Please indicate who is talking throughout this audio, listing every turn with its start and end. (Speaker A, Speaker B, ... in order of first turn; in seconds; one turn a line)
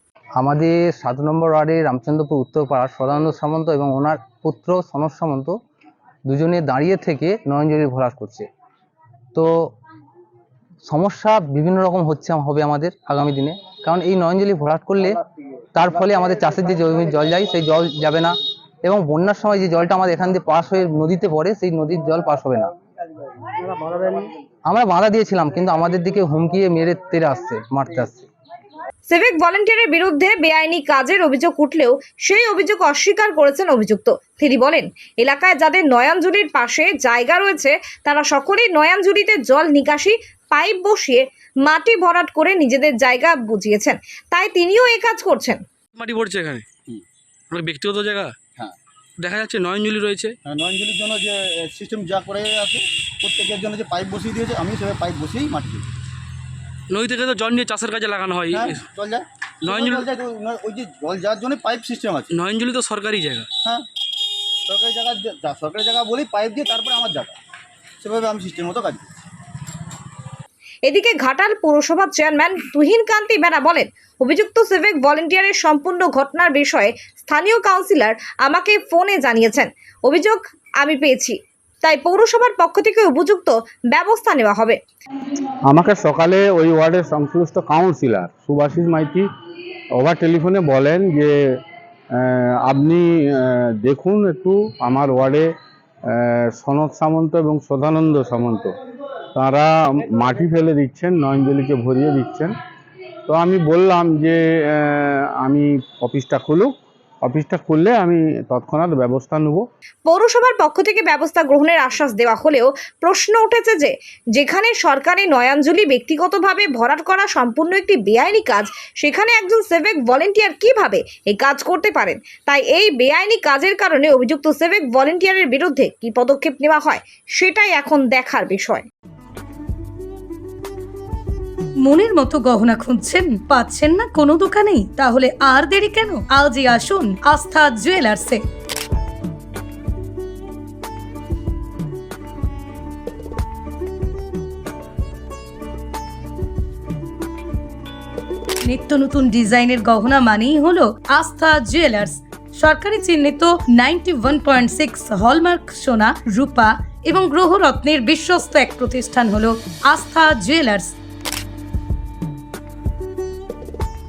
Speaker A: 0.4-5.5
Speaker A: 6.3-8.4
Speaker A: 10.8-15.2
Speaker A: 15.7-22.7
Speaker A: 23.8-28.3
Speaker B: 29.1-45.6
Speaker C: 46.0-46.6
Speaker C: 47.5-48.4
Speaker C: 49.2-50.4
Speaker D: 50.4-55.9
Speaker C: 56.9-58.8
Speaker D: 58.5-62.3
Speaker C: 59.6-60.1
Speaker C: 62.3-63.5
Speaker D: 64.7-67.3
Speaker D: 68.0-69.0
Speaker B: 70.8-84.8
Speaker E: 85.7-89.2
Speaker E: 90.0-91.3
Speaker E: 92.1-95.5
Speaker E: 96.1-98.7
Speaker E: 99.3-102.5
Speaker E: 103.3-109.7
Speaker B: 110.0-128.8
Speaker F: 131.8-138.4
Speaker F: 148.6-160.9